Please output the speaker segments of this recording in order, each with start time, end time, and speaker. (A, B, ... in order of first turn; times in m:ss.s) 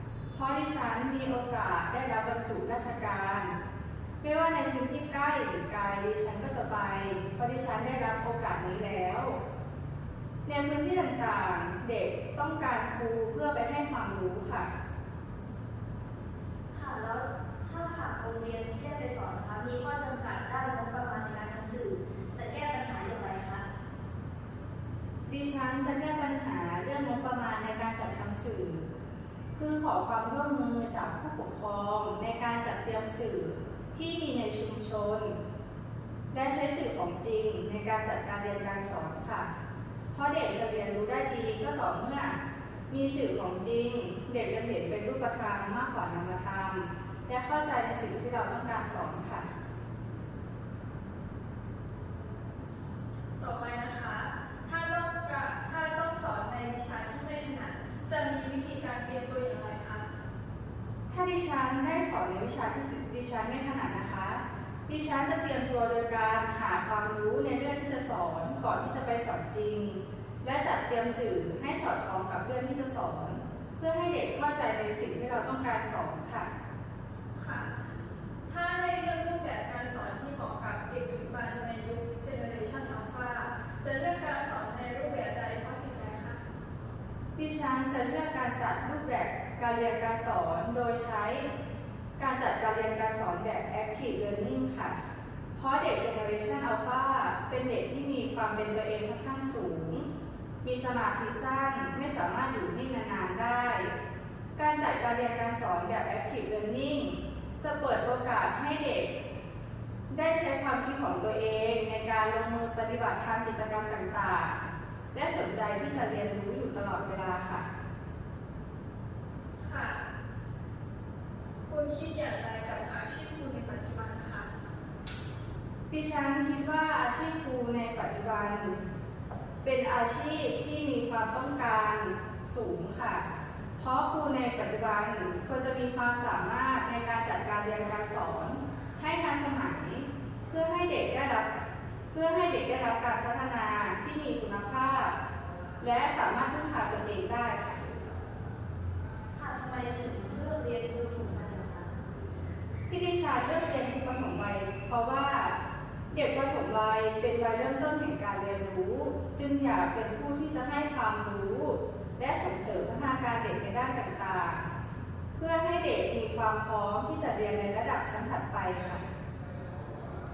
0:00.3-0:03.5 A
0:04.2-0:09.4 A
0:10.5-0:14.7 A
0:16.7-0:23.6 B
0:25.3-0:28.8 A
0:29.5-0:35.4 A
0:36.3-0:39.5 A
0:40.1-0:49.5 A
0:53.4-1:00.1 C
1:01.1-1:16.5 A
1:17.4-1:17.7 C
1:18.5-1:26.4 C
1:27.4-1:31.5 A
1:32.2-1:35.0 A
1:35.6-1:40.1 A
1:40.6-1:43.9 A
1:44.6-1:49.1 A
1:50.1-1:54.6 A
1:55.1-1:57.7 A
1:59.6-2:00.0 C
2:01.7-2:04.5 C
2:05.9-2:08.8 A
2:09.6-2:13.2 A
2:13.8-2:21.6 A
2:22.1-2:25.1 A
2:25.8-2:27.8 A
2:29.3-2:31.9 B
2:32.9-2:35.6 A
2:36.1-2:44.7 A
2:45.4-2:49.0 A